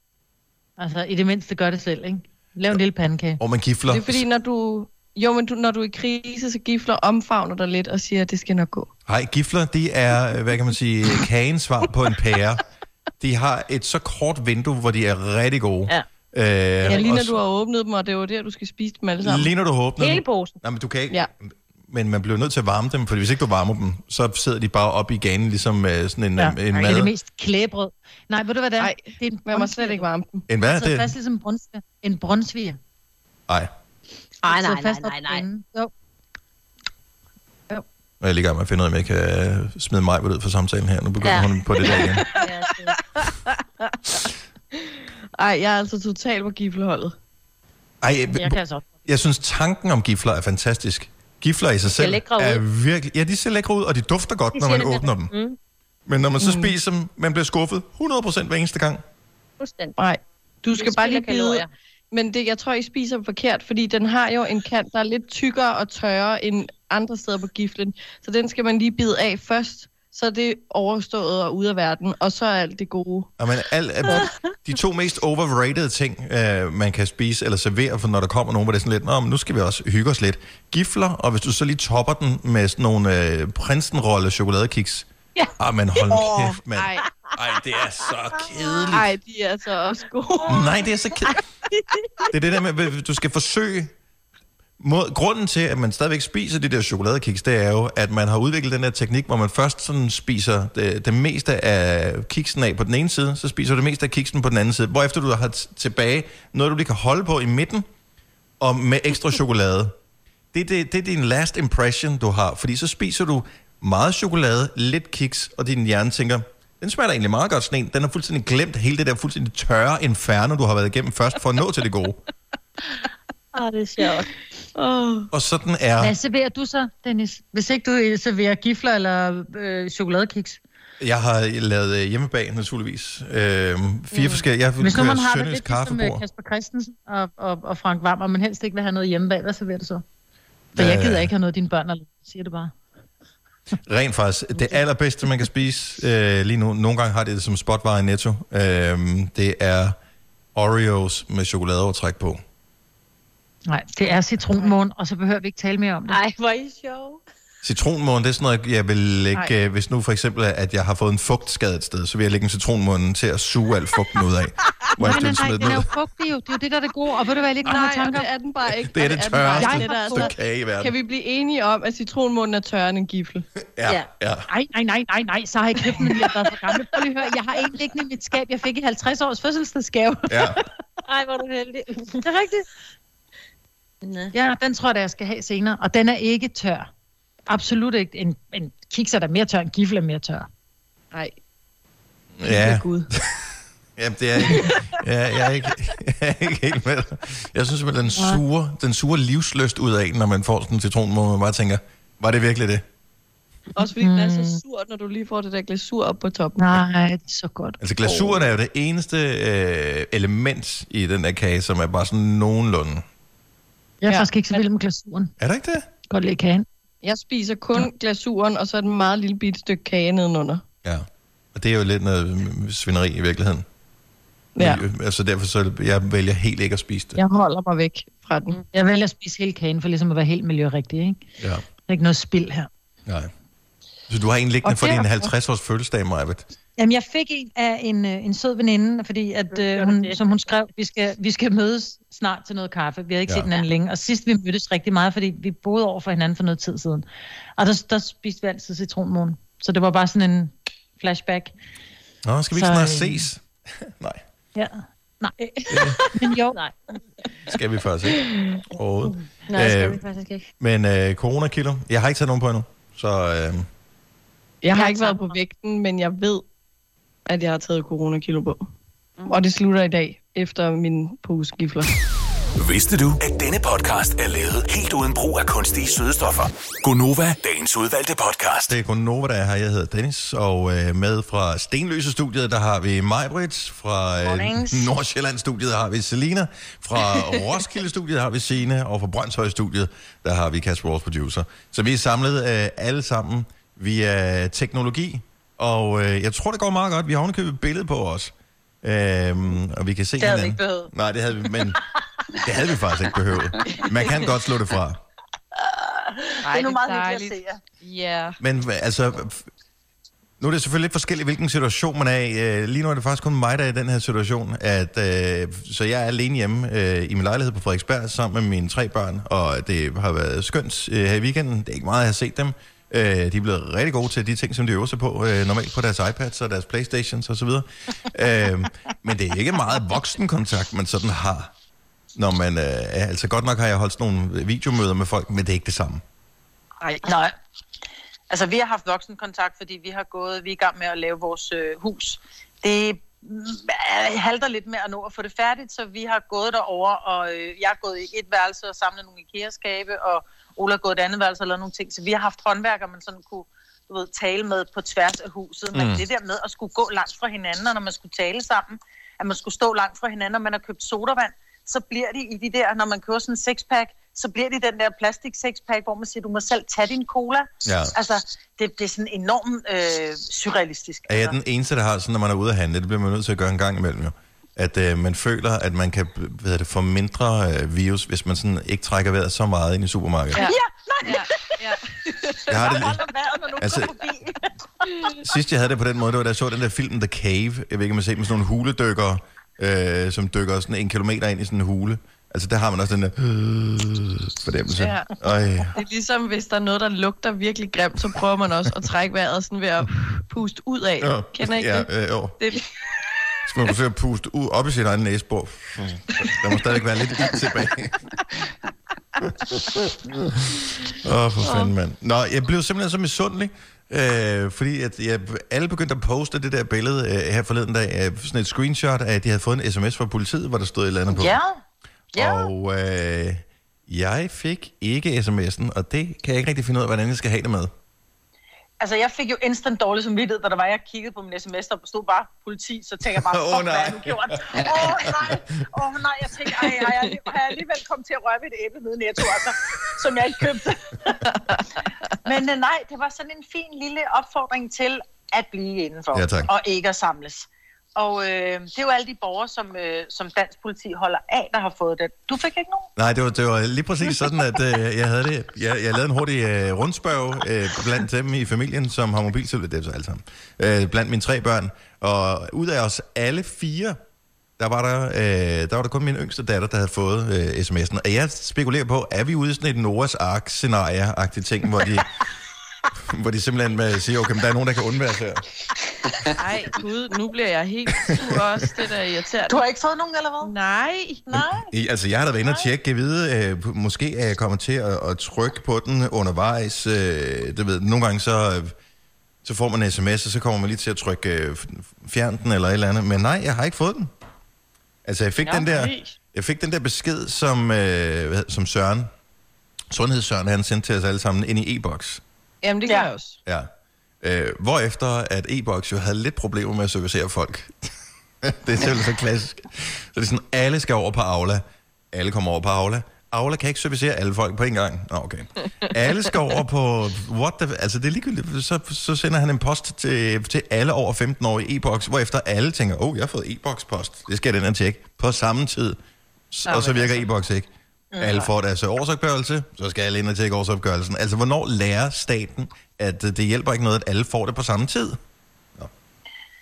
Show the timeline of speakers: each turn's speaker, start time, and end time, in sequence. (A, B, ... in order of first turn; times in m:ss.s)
0:00.8-0:03.4 A
0:03.4-0:04.2 B
0:03.9-0:08.9 C
0:09.1-0:12.6 B
0:13.2-0:17.4 B
0:16.9-0:19.5 C
0:19.2-0:21.3 B
0:20.0-0:20.5 D
0:21.8-0:27.1 B
0:26.4-0:30.0 A
0:28.8-0:30.4 C
0:30.5-0:31.1 B
0:30.6-0:32.8 A
0:34.4-0:35.9 A
0:34.4-0:35.4 D
0:38.2-0:42.2 B
0:41.2-0:43.0 D
0:42.9-0:44.0 C
0:44.7-0:47.1 C
0:48.0-0:55.3 B
0:48.4-0:48.7 D
0:51.9-0:52.6 D
0:54.5-0:55.6 D
0:56.1-0:59.0 B
0:56.4-0:56.7 C
0:59.6-0:59.9 D
1:00.0-1:13.3 C
1:00.7-1:01.7 D
1:13.4-1:25.1 B
1:25.6-1:29.1 B
1:26.1-1:27.0 C
1:28.9-1:30.7 C
1:30.5-1:31.4 B
1:32.3-1:33.9 B
1:34.8-1:47.8 B
1:48.6-1:50.0 B
1:50.5-2:02.2 B
2:03.5-2:04.3 D
2:05.3-2:06.1 B
2:06.0-2:10.6 A
2:11.0-2:16.2 B
2:14.8-2:20.0 A
2:20.7-2:21.3 B
2:20.8-2:22.7 A
2:23.8-2:30.0 B
2:30.5-2:32.4 B
2:33.7-2:36.2 A
2:36.1-2:37.2 D
2:37.6-2:45.9 B
2:45.0-2:48.3 A
2:47.6-2:53.4 C
2:48.9-2:50.9 B
2:49.6-2:50.3 A
2:53.8-2:54.5 B
2:54.5-3:00.6 A
3:00.3-3:00.6 B
3:01.0-3:02.2 D
3:02.2-3:02.6 A
3:04.0-3:04.3 D
3:04.3-3:06.9 A
3:07.5-3:10.5 A
3:12.4-3:22.8 B
3:12.4-3:13.1 C
3:14.4-3:14.8 C
3:23.8-3:26.7 C
3:24.0-3:24.6 A
3:26.6-3:27.8 A
3:27.8-3:33.0 B
3:28.1-3:28.4 C
3:34.0-3:35.3 A
3:34.1-3:34.6 C
3:35.4-3:35.8 B
3:36.1-3:36.6 A
3:37.0-3:40.6 C
3:40.8-3:43.6 B
3:44.6-3:44.8 C
3:44.6-3:47.2 B
3:47.2-3:48.6 C
3:48.7-3:51.2 A
3:51.9-3:52.7 A
3:53.0-3:53.3 B
3:54.1-3:56.4 B
3:54.6-3:55.3 C
3:56.8-4:07.0 A
3:59.6-4:00.2 D
4:07.6-4:11.5 A
4:12.2-4:14.2 B
4:12.5-4:13.2 A
4:14.5-4:16.6 A
4:15.7-4:16.0 B
4:17.4-4:20.0 B
4:19.5-4:20.4 D
4:20.6-4:23.7 B
4:24.6-4:26.4 C
4:24.7-4:25.3 D
4:27.3-4:28.7 C
4:29.3-4:31.9 C
4:32.6-4:38.8 E
4:38.7-5:01.8 B
4:44.2-4:44.9 F
5:00.2-5:00.9 F
5:02.4-5:05.0 B
5:05.6-5:07.6 F
5:06.4-5:08.4 C
5:08.4-5:09.5 B
5:10.4-5:31.5 B
5:32.1-5:36.0 B
5:37.0-5:37.3 F
5:38.3-6:11.3 F
5:55.7-5:56.0 B
6:07.6-6:07.9 B
6:11.1-6:20.4 B
6:20.3-6:22.7 C
6:20.4-6:21.5 F
6:22.5-6:23.0 B
6:22.5-6:25.2 F
6:23.6-6:24.0 B
6:25.2-6:35.8 B
6:34.8-6:35.1 C
6:35.7-6:42.6 C
6:41.0-6:42.4 B
6:43.4-6:48.0 B
6:49.2-7:01.4 B
6:51.4-6:51.7 C
7:01.1-7:01.6 F
7:02.1-7:07.7 B
7:02.2-7:02.5 F
7:08.8-7:21.3 F
7:13.2-7:15.4 B
7:22.2-7:32.9 F
7:26.1-7:26.5 B
7:33.0-7:44.0 B
7:44.6-7:52.2 B
7:53.0-7:55.4 B
7:56.4-7:59.6 C
7:58.0-7:58.4 B
7:59.5-8:00.5 F
8:00.4-8:01.2 C
8:01.3-8:01.7 F
8:01.3-8:08.7 B
8:09.4-8:14.1 B
8:15.0-8:19.1 B
8:15.5-8:15.9 C
8:19.9-8:22.2 B
8:22.6-8:23.4 C
8:24.2-8:27.9 B
8:28.4-8:46.0 B
8:46.5-8:55.2 B
8:46.7-8:47.1 C
8:48.1-8:48.5 F